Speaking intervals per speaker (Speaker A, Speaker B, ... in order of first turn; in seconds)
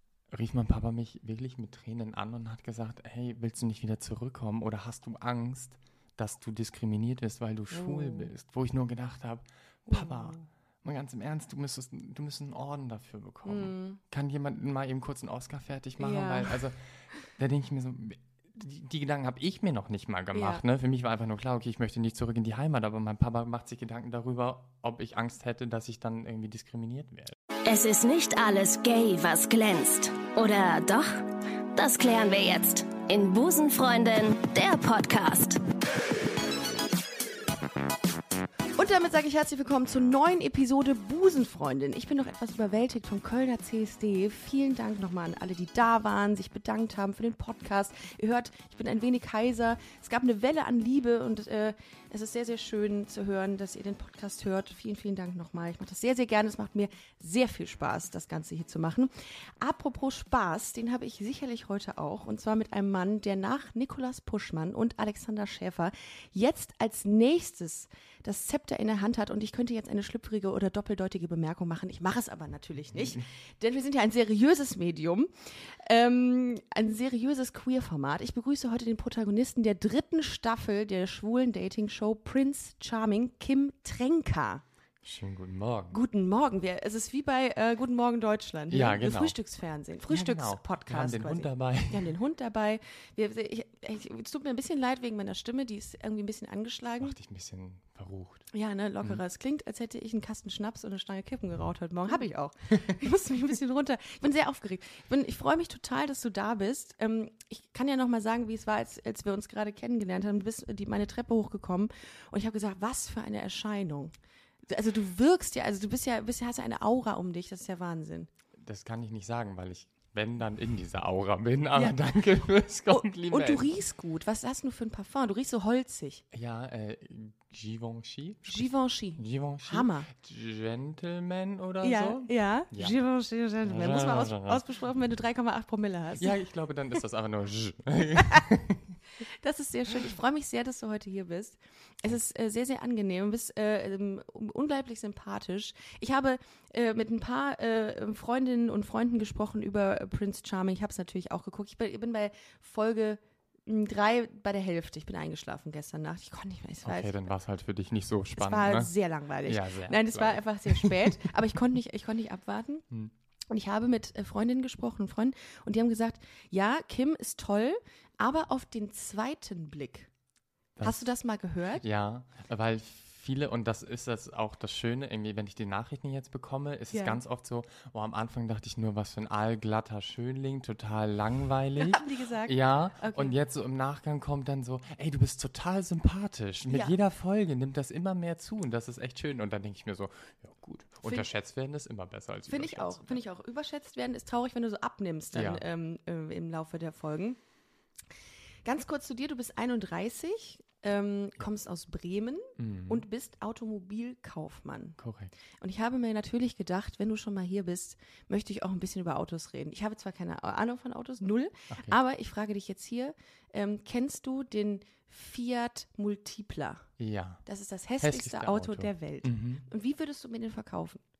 Speaker A: 0.3-27.4, 72.9-73.2, 85.0-86.0, 88.7-89.3, 90.0-92.1, 97.0-98.5, 118.6-123.7, 126.3-133.0, 133.6-134.6, 136.2-138.9, 156.8-158.9, 159.4-161.2, 170.8-171.2, 171.7-193.2, 195.3-195.6, 202.6-203.0, 205.0-205.3, 211.7-212.0, 217.0-217.4, 218.0-219.7
Speaker B: 7.7-8.3, 9.9-10.4, 13.4-14.0, 16.0-16.6, 20.3-20.6, 38.7-84.6, 85.9-97.2, 98.5-114.1, 114.7-118.3, 122.9-126.2, 128.4-130.1, 131.8-136.3, 139.2-157.1, 158.3-162.8, 163.5-170.1, 170.8-171.8, 176.9-177.2, 181.8-183.3, 186.7-186.9, 191.0-191.3, 192.5-197.4, 198.6-205.0, 205.5-216.9, 217.4-221.0
Speaker C: 27.6-35.6